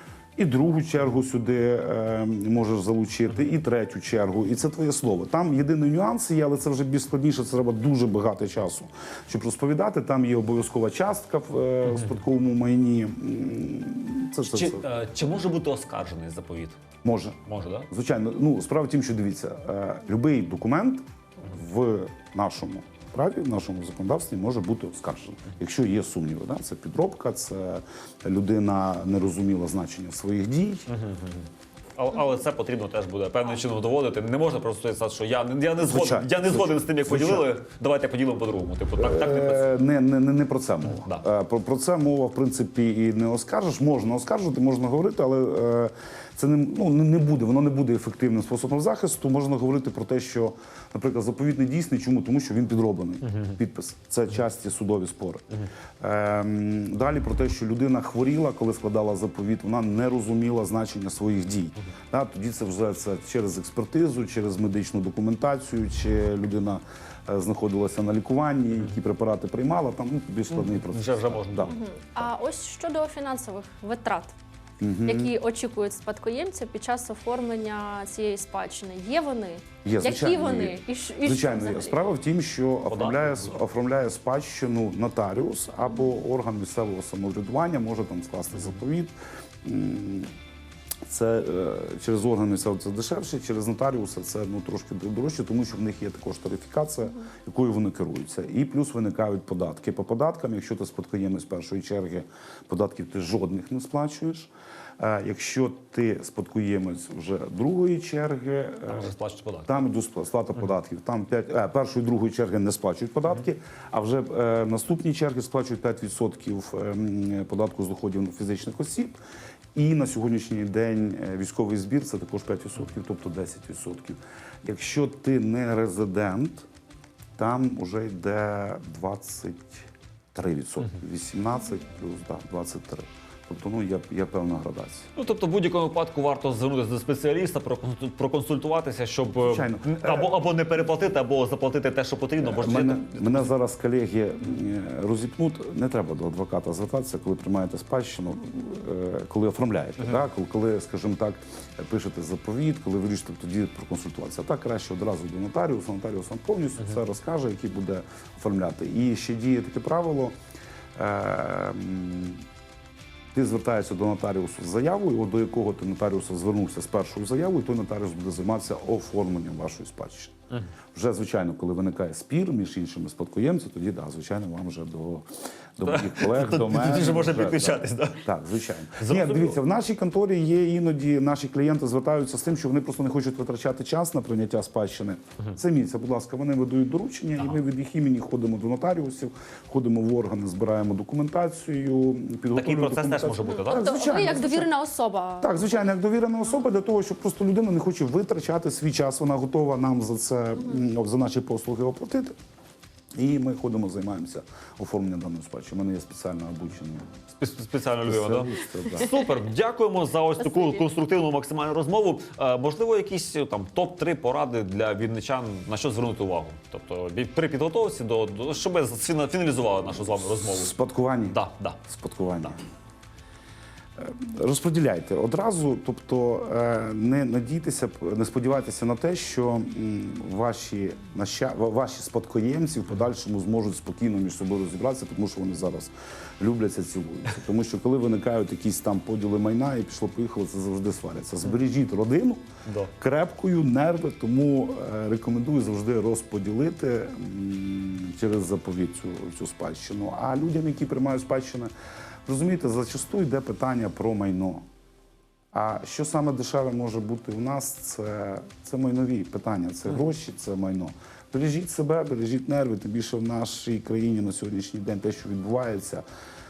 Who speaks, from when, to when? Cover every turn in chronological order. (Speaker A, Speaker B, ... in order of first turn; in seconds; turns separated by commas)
Speaker A: 0.4-14.8, Speaker B: 11.9-12.2, Speaker B: 14.5-16.8, Speaker A: 17.0-17.4, Speaker B: 17.4-17.9, Speaker A: 17.9-30.9, Speaker B: 30.9-39.8, Speaker A: 35.8-37.5, Speaker A: 39.0-55.5, Speaker B: 40.9-41.2, Speaker B: 53.2-53.6, Speaker A: 56.0-72.3, Speaker B: 70.5-71.8, Speaker C: 71.7-74.3, Speaker A: 74.8-75.3, Speaker C: 75.1-82.0, Speaker A: 79.8-90.3, Speaker B: 82.9-83.6, Speaker A: 91.1-109.1, Speaker B: 108.9-109.7, Speaker A: 109.7-119.2, Speaker A: 119.8-126.7, Speaker A: 127.4-129.8, Speaker A: 130.3-135.1, Speaker B: 135.2-143.5, Speaker A: 139.4-140.3, Speaker A: 142.4-160.4, Speaker A: 161.0-162.4, Speaker A: 163.3-170.3, Speaker A: 170.9-194.7, Speaker B: 175.8-178.3, Speaker B: 179.0-179.6, Speaker B: 192.5-193.9, Speaker C: 193.6-195.6, Speaker A: 195.4-202.3, Speaker A: 203.2-207.1, Speaker B: 207.4-220.7, Speaker A: 208.0-209.1, Speaker C: 210.4-210.8, Speaker A: 220.4-222.6, Speaker B: 221.3-221.8, Speaker A: 224.0-242.4, Speaker B: 242.7-242.9, Speaker A: 243.0-251.7, Speaker A: 252.3-254.7, Speaker A: 255.5-266.0